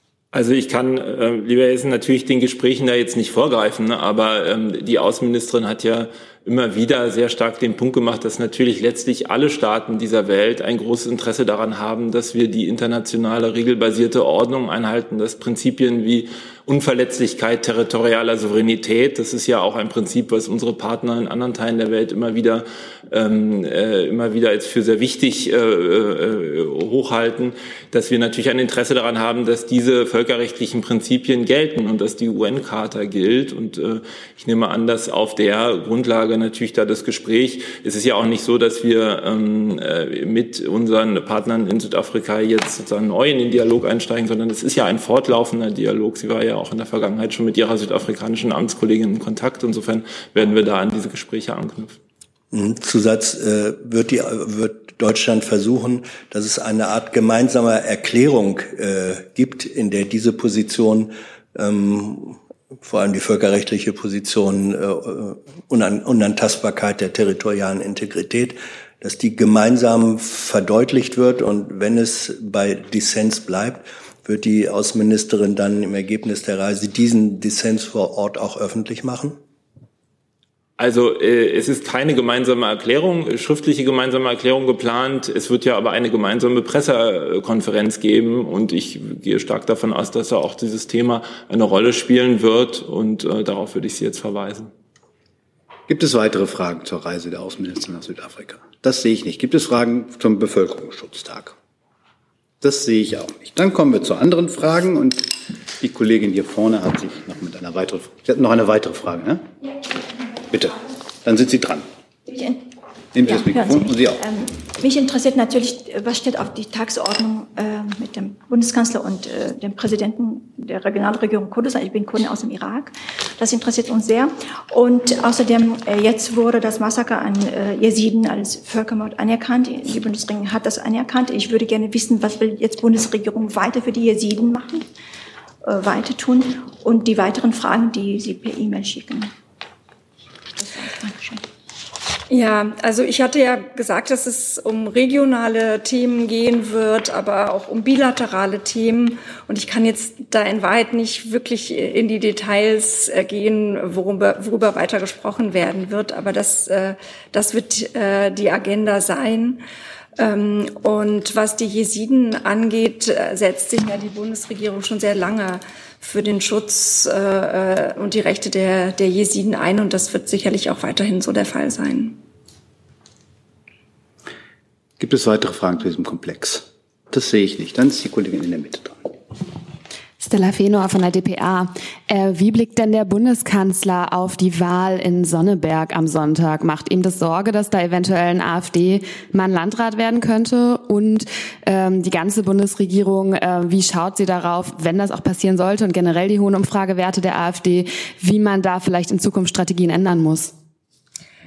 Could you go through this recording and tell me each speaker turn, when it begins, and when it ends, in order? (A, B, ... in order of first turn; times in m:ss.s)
0:00.3-0:52.0 A
0:52.5-1:19.4 B
1:20.8-1:34.7 A
1:35.9-1:41.6 C
1:42.6-1:49.5 C
1:50.5-1:51.8 C
1:52.3-1:52.6 D
1:53.2-1:54.2 C
1:53.2-2:14.9 D
2:15.6-2:19.3 D
2:20.6-2:21.4 D
2:22.3-2:39.6 E
2:40.2-2:52.2 E
2:55.0-2:59.1 C
3:00.2-3:20.5 F